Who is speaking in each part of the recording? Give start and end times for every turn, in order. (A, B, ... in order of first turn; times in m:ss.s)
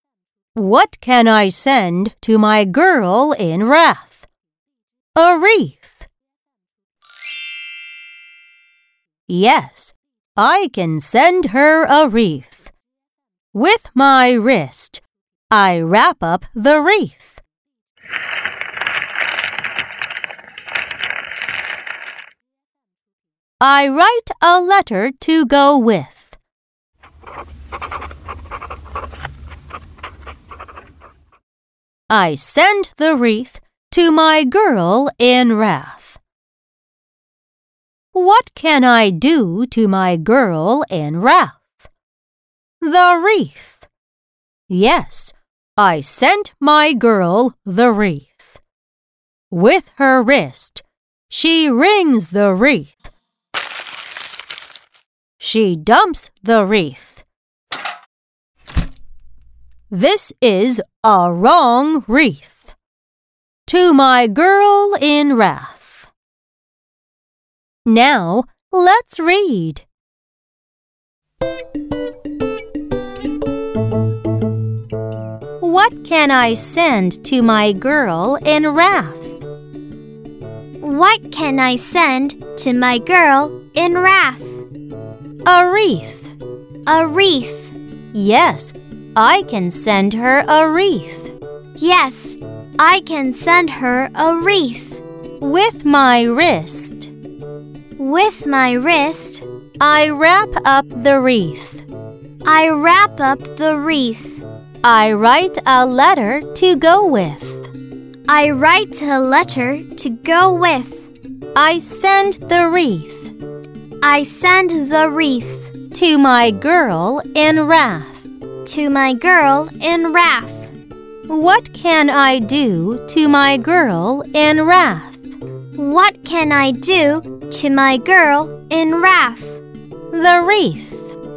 0:00.5-0:04.3 A
0:05.2-0:06.1 A
0:09.3-0:12.7 A
0:13.5-0:17.4 A
0:23.6-0:26.4 A
0:32.1-0:36.2 A
0:38.1-0:41.9 A
0:42.8-0:43.9 A
0:44.7-0:48.6 A
0:49.5-0:53.1 A
0:55.4-0:57.2 A
0:59.9-1:02.7 A
1:03.6-1:06.1 A
1:07.8-1:09.8 A
1:15.6-1:19.4 A
1:20.8-1:24.6 B
1:25.4-1:26.3 A
1:26.8-1:27.7 B
1:28.1-1:31.3 A
1:31.8-1:35.0 B
1:35.4-1:37.1 A
1:38.0-1:39.4 B
1:39.8-1:41.8 A
1:42.4-1:44.4 B
1:44.8-1:47.7 A
1:48.3-1:51.1 B
1:51.5-1:53.3 A
1:54.0-1:55.7 B
1:55.9-1:58.3 A
1:58.6-2:00.7 B
2:01.3-2:05.3 A
2:05.8-2:09.6 B
2:10.1-2:11.1 A